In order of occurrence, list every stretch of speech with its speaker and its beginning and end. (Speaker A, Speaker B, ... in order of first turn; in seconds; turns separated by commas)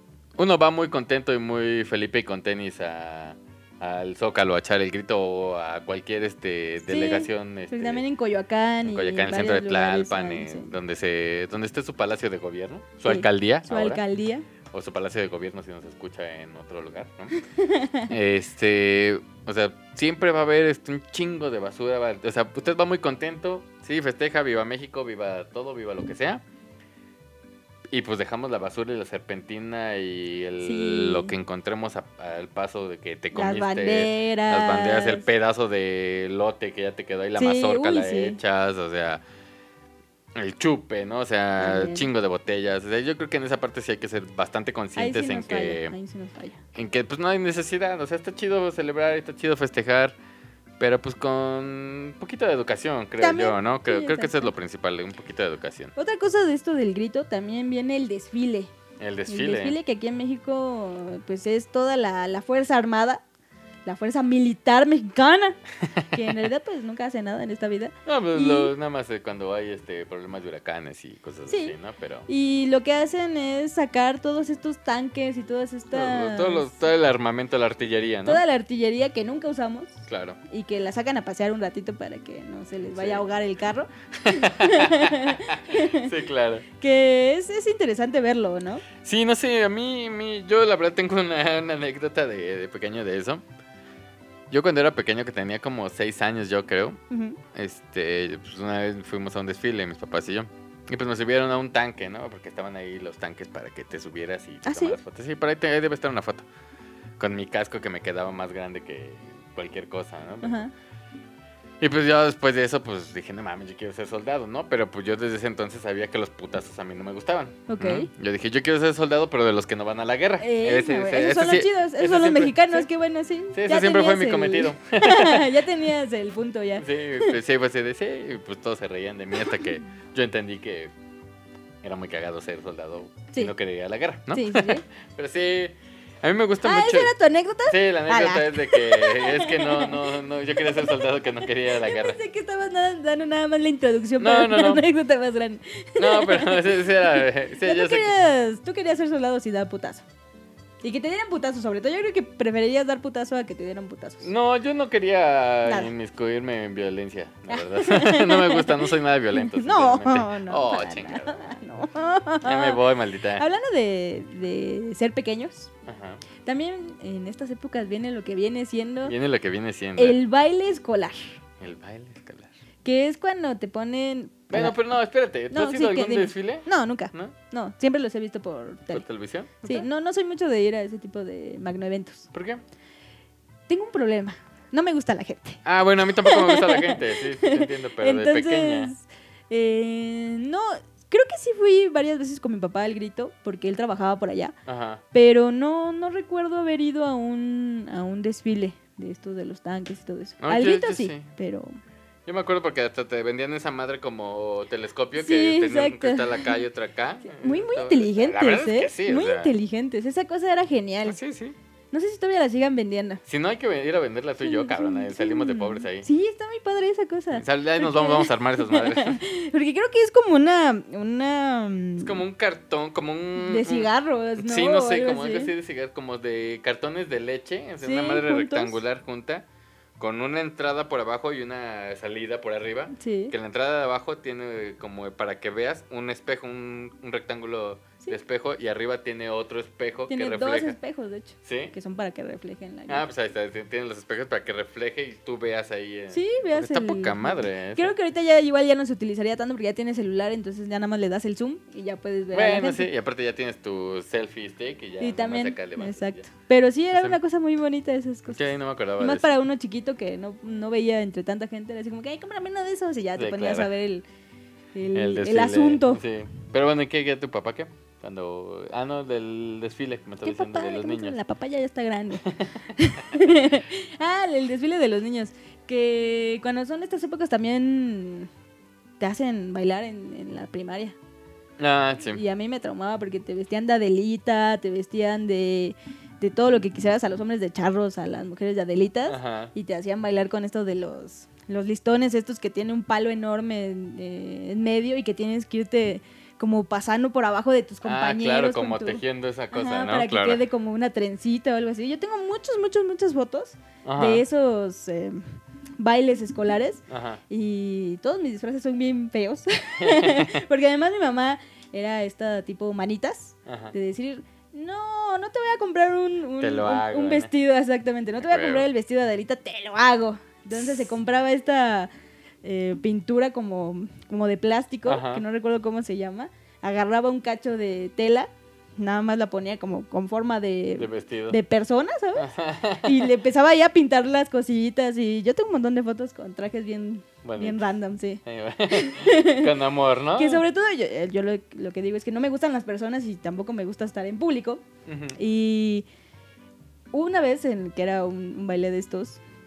Speaker A: 0.3-8.0, Speaker B: 6.9-10.7, Speaker A: 8.8-14.0, Speaker B: 13.1-14.5, Speaker A: 14.7-17.4, Speaker B: 17.4-18.1, Speaker A: 18.1-26.4, Speaker A: 27.9-39.2, Speaker B: 30.6-31.3, Speaker B: 33.3-35.3, Speaker B: 37.4-38.4, Speaker A: 40.3-45.9, Speaker B: 41.6-42.1, Speaker B: 45.0-46.6, Speaker A: 46.7-50.1, Speaker A: 50.8-55.9, Speaker B: 53.2-54.5, Speaker B: 56.0-58.7, Speaker A: 59.0-59.8, Speaker B: 59.3-63.2, Speaker B: 63.8-68.7, Speaker A: 68.0-72.3, Speaker B: 71.5-71.8, Speaker B: 72.3-76.9, Speaker A: 75.9-78.4, Speaker B: 78.2-86.1, Speaker A: 80.1-80.4, Speaker A: 82.9-83.2, Speaker A: 84.2-86.7, Speaker B: 86.8-88.8, Speaker A: 89.0-93.4, Speaker A: 94.5-97.0, Speaker B: 97.1-97.4, Speaker A: 97.5-106.5, Speaker B: 104.6-105.0, Speaker A: 107.2-110.6, Speaker B: 110.4-110.7, Speaker A: 111.8-122.9, Speaker B: 117.7-118.1, Speaker B: 120.4-127.3, Speaker A: 123.5-125.6, Speaker A: 126.8-130.9, Speaker A: 131.8-137.1, Speaker B: 134.3-134.8, Speaker B: 136.6-150.0, Speaker A: 137.7-142.2, Speaker A: 144.2-144.8, Speaker A: 146.0-148.1, Speaker B: 150.8-154.3, Speaker A: 154.2-161.6, Speaker B: 155.7-155.9, Speaker B: 157.5-162.8, Speaker A: 162.4-163.4, Speaker B: 163.3-165.7, Speaker A: 165.9-166.2, Speaker B: 166.4-169.1, Speaker A: 169.0-170.2, Speaker B: 170.0-171.4, Speaker A: 171.6-172.5, Speaker B: 172.8-174.8, Speaker A: 174.5-177.3, Speaker B: 175.5-179.0, Speaker A: 178.9-179.9, Speaker B: 179.6-182.3, Speaker A: 182.3-182.6, Speaker B: 183.7-194.5, Speaker A: 185.6-188.9, Speaker A: 194.7-195.0, Speaker B: 195.1-201.8, Speaker A: 200.4-201.3, Speaker A: 202.2-209.5, Speaker B: 205.2-206.6, Speaker B: 207.3-211.2, Speaker A: 211.1-211.6, Speaker B: 211.9-213.2, Speaker A: 213.3-216.1, Speaker B: 214.4-222.2, Speaker A: 217.3-219.2, Speaker A: 222.0-229.4, Speaker B: 223.4-225.5, Speaker B: 227.8-228.8, Speaker A: 230.0-240.8, Speaker B: 232.9-233.3, Speaker B: 240.1-243.1, Speaker A: 241.4-241.7, Speaker A: 242.9-247.9, Speaker B: 246.1-252.9, Speaker A: 252.3-256.2, Speaker B: 255.0-264.0, Speaker A: 258.3-259.3, Speaker A: 263.1-263.7, Speaker B: 264.7-266.0, Speaker A: 264.9-271.1, Speaker B: 270.2-278.3, Speaker A: 272.2-272.5, Speaker B: 279.0-280.9, Speaker A: 281.6-282.2, Speaker B: 282.1-305.2, Speaker A: 289.1-289.5, Speaker A: 297.8-300.4, Speaker A: 303.8-304.2, Speaker B: 305.8-321.9, Speaker A: 306.9-307.2, Speaker A: 309.8-310.3, Speaker A: 313.4-313.7, Speaker A: 316.4-317.3, Speaker A: 318.2-318.7, Speaker B: 322.4-332.3, Speaker A: 324.9-325.2, Speaker A: 330.8-331.4, Speaker A: 332.1-333.1, Speaker B: 332.8-339.5, Speaker A: 337.2-337.6, Speaker A: 338.2-340.4, Speaker B: 340.1-345.9, Speaker A: 344.9-345.2, Speaker B: 346.9-349.2